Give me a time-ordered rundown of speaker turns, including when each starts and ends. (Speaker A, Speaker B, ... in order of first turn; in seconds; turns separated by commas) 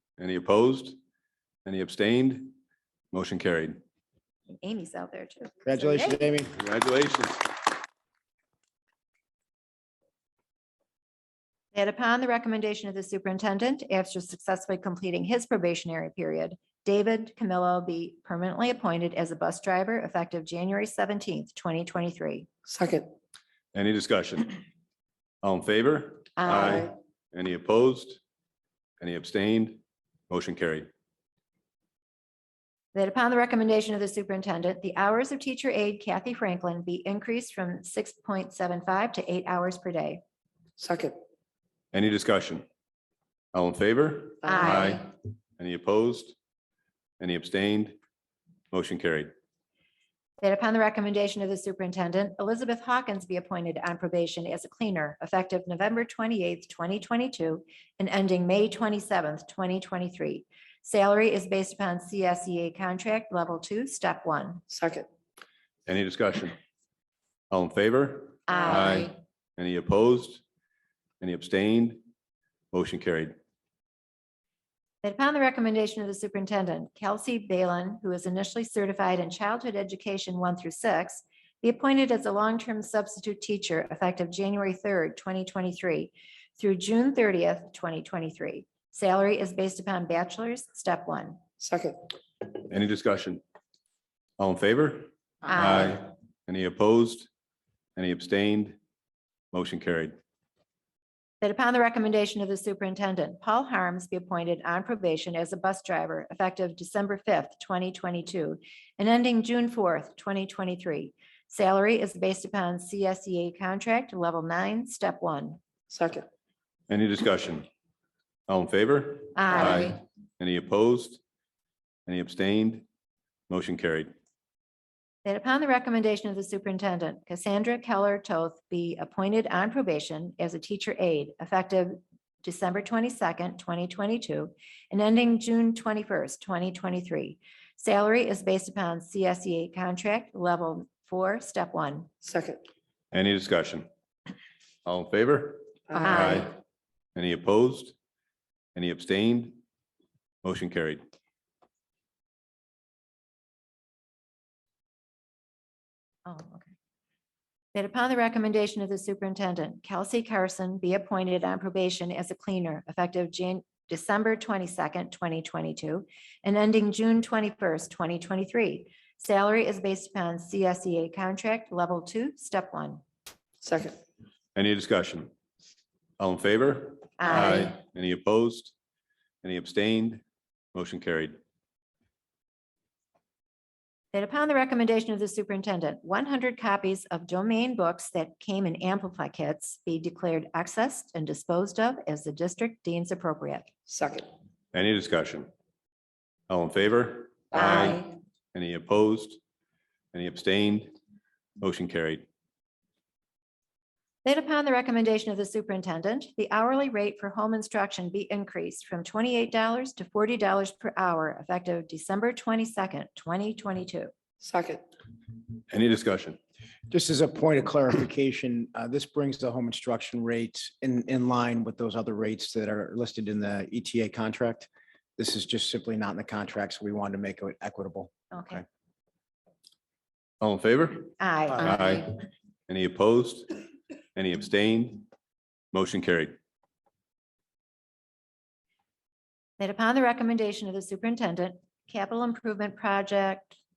Speaker A: 0.2-1.0, Speaker A: 1.6-2.5, Speaker A: 3.1-3.8, Speaker B: 4.5-6.3, Speaker C: 5.6-6.5, Speaker A: 6.6-7.5, Speaker B: 11.7-22.5, Speaker D: 22.7-23.1, Speaker A: 23.7-24.6, Speaker A: 25.4-28.2, Speaker B: 26.4-26.9, Speaker A: 29.0-30.9, Speaker B: 32.9-40.2, Speaker D: 40.8-41.1, Speaker A: 41.9-42.6, Speaker A: 43.5-45.1, Speaker D: 44.5-44.9, Speaker B: 44.5-45.0, Speaker A: 45.6-46.3, Speaker A: 47.2-48.0, Speaker A: 48.7-49.3, Speaker B: 50.4-64.6, Speaker D: 64.7-65.1, Speaker A: 65.9-66.6, Speaker A: 67.5-70.4, Speaker B: 68.5-69.1, Speaker A: 71.2-72.0, Speaker A: 72.7-73.3, Speaker B: 75.0-91.4, Speaker D: 91.6-92.0, Speaker A: 92.6-93.4, Speaker A: 94.4-97.3, Speaker B: 95.4-96.0, Speaker A: 98.0-98.8, Speaker A: 99.5-100.2, Speaker B: 101.4-115.6, Speaker D: 115.9-116.2, Speaker A: 116.9-117.7, Speaker A: 118.5-121.2, Speaker B: 119.3-120.0, Speaker A: 122.0-122.9, Speaker A: 123.5-124.1, Speaker B: 125.2-142.1, Speaker D: 142.2-142.6, Speaker A: 143.1-143.9, Speaker A: 144.8-146.5, Speaker D: 145.9-146.4, Speaker B: 146.0-146.5, Speaker A: 147.2-147.9, Speaker A: 148.8-149.6, Speaker A: 150.4-151.0, Speaker B: 156.2-156.7, Speaker B: 157.7-173.0, Speaker D: 173.6-173.9, Speaker A: 174.6-175.3, Speaker A: 176.2-178.7, Speaker B: 177.2-177.7, Speaker A: 179.4-180.2, Speaker A: 180.7-181.4, Speaker B: 184.1-193.7, Speaker D: 193.9-194.3, Speaker A: 194.7-195.5, Speaker A: 196.5-199.4, Speaker D: 197.6-198.0, Speaker B: 197.6-198.0, Speaker A: 200.1-200.9, Speaker A: 201.6-202.2, Speaker B: 204.2-214.1, Speaker D: 214.4-214.8, Speaker A: 215.7-216.4, Speaker C: 216.9-228.1, Speaker B: 228.3-228.6, Speaker A: 230.4-232.1, Speaker B: 231.2-232.2, Speaker A: 232.7-233.5, Speaker A: 234.2-235.0, Speaker A: 235.7-236.4, Speaker B: 239.6-243.6